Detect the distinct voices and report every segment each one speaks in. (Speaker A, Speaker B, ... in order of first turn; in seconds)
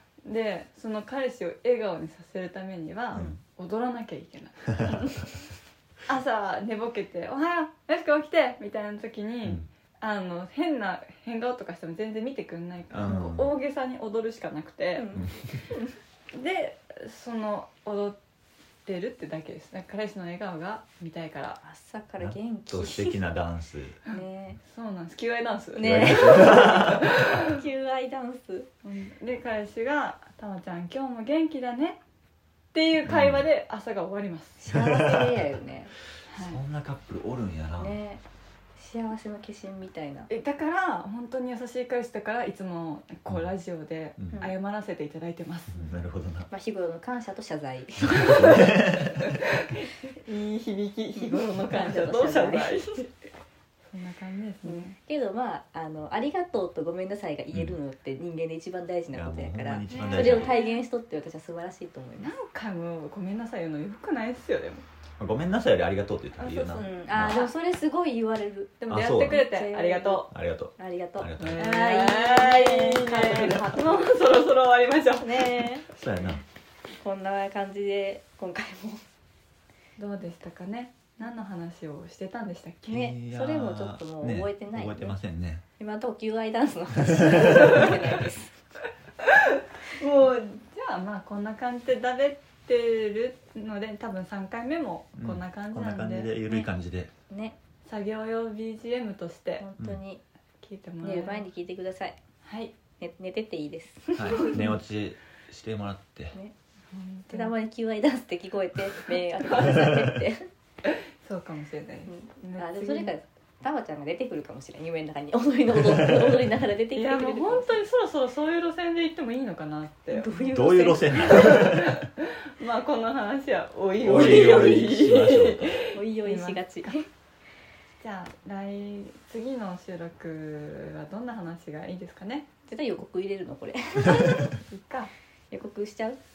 Speaker A: 0.2-5.1, 6.1-15.1, 16.3-18.2, 18.9-21.6, 24.1-27.6, 28.8-32.0, 32.7-34.7, 36.3-36.6, 40.3-45.9, 48.1-53.1, 53.9-55.0, 59.9-60.8, 62.2-64.8, 66.4-67.5, 68.8-70.3, 71.4-75.6, 80.0-83.0, 89.2-96.3, 97.8-99.6, 100.6-101.5, 102.4-102.7, 104.3-104.7, 106.9-107.5, 109.5-109.8, 110.8-113.1, 116.9-120.5, 121.2-126.9, 128.0-132.5, 134.0-135.1
Speaker B: 3.1-3.4, 12.9-13.5, 15.1-15.7, 22.2-24.0, 25.8-27.1, 33.0-33.4, 34.7-35.4, 36.3-38.0, 44.2-44.5, 45.7-46.5, 48.1-49.3, 59.1-60.6, 65.2-67.5, 68.9-69.5, 70.3-71.7, 75.9-76.4, 82.9-85.6, 87.0-88.0, 95.2-97.1, 104.1-106.4, 109.6-110.1, 115.7-116.4, 120.5-122.0, 124.0-125.7
Speaker C: 14.9-15.9, 21.6-23.3, 24.1-24.6, 25.8-28.7, 34.6-35.9, 37.8-38.2, 38.8-40.3, 46.5-48.7, 51.1-53.0, 54.6-62.3, 66.8-70.2, 70.8-74.2, 75.2-75.9, 77.0-79.0, 82.9-85.2, 85.8-88.6, 97.3-97.6, 99.6-100.2, 101.0-102.2, 103.0-104.7, 107.3-110.5, 112.1-117.8, 120.1-121.6, 124.1-124.8, 125.9-127.0, 132.7-134.4, 135.5-136.2